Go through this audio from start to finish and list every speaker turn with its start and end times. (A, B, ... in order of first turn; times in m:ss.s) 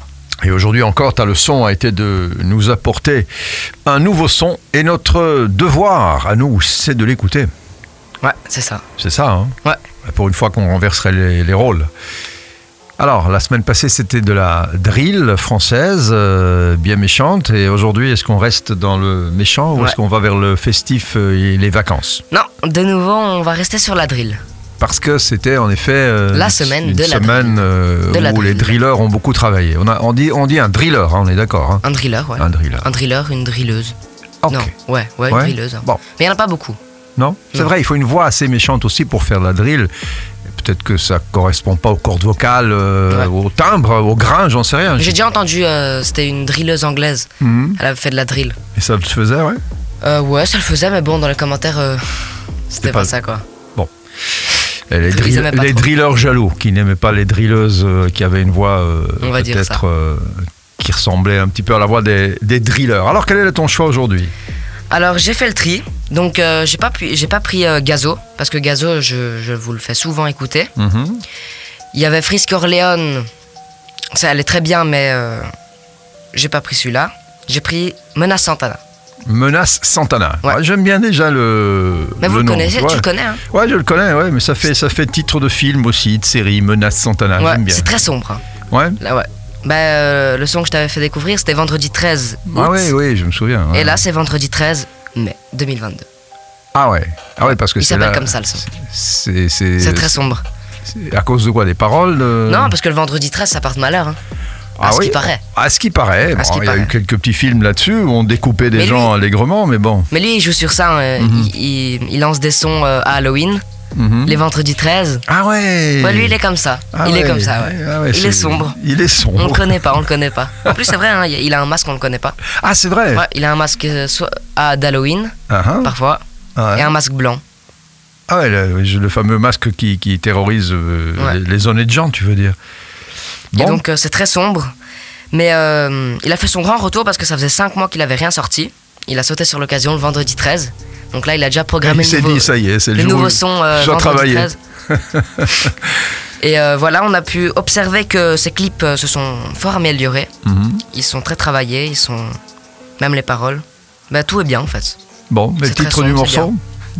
0:00.4-0:03.3 A
0:03.9-0:07.5 A
0:08.2-0:08.8 B
0:09.0-0:11.9 A
0:13.0-0:22.2 A
0:22.3-0:24.4 B
0:24.8-0:31.8 A
0:26.3-0:28.8 B
0:31.8-0:34.0 B
0:32.4-0:32.9 A
0:34.4-0:34.7 A
0:34.5-0:36.8 B
0:35.3-0:36.0 A
0:37.2-0:39.9 A
0:40.5-0:45.2 A
0:45.0-0:48.6 B
0:47.4-0:47.8 A
0:48.8-0:49.6 A
0:50.0-0:53.4 B
0:52.8-0:53.1 A
0:54.5-1:04.3 A
0:55.1-0:55.9 B
0:59.2-0:59.8 B
1:04.9-1:10.7 B
1:10.8-1:11.2 A
1:11.9-1:13.3 B
1:14.1-1:15.5 B
1:16.3-1:18.8 B
1:19.3-1:27.9 A
1:22.2-1:23.4 B
1:27.4-1:28.5 B
1:28.7-1:29.0 A
1:29.0-1:32.9 B
1:32.5-1:34.0 A
1:33.7-1:36.1 B
1:36.8-1:40.2 A
1:37.4-1:38.6 B
1:39.8-1:40.4 B
1:40.9-1:42.7 A
1:42.5-1:44.2 B
1:44.8-1:50.1 A
1:44.8-1:45.4 B
1:46.3-1:46.9 B
1:48.7-1:49.1 B
1:50.1-1:53.6 B
1:51.2-1:51.5 A
1:54.0-1:54.4 A
1:54.2-1:55.2 B
1:55.3-1:56.4 A
1:56.0-1:58.8 B
1:56.9-2:00.0 A
1:59.4-2:02.4 B
2:02.6-2:03.2 A
2:03.1-2:06.2 B
2:05.5-2:05.9 A
2:06.6-2:06.9 A
2:06.7-2:07.4 B
2:08.3-2:12.6 A
2:13.5-2:13.8 A
2:13.6-2:14.7 B
2:15.3-2:24.6 B
2:21.8-2:26.1 A
2:26.4-2:30.3 B
2:30.4-2:30.8 A
2:30.9-2:32.4 B
2:33.0-2:35.0 B
2:35.3-2:36.6 A
2:35.6-2:36.5 B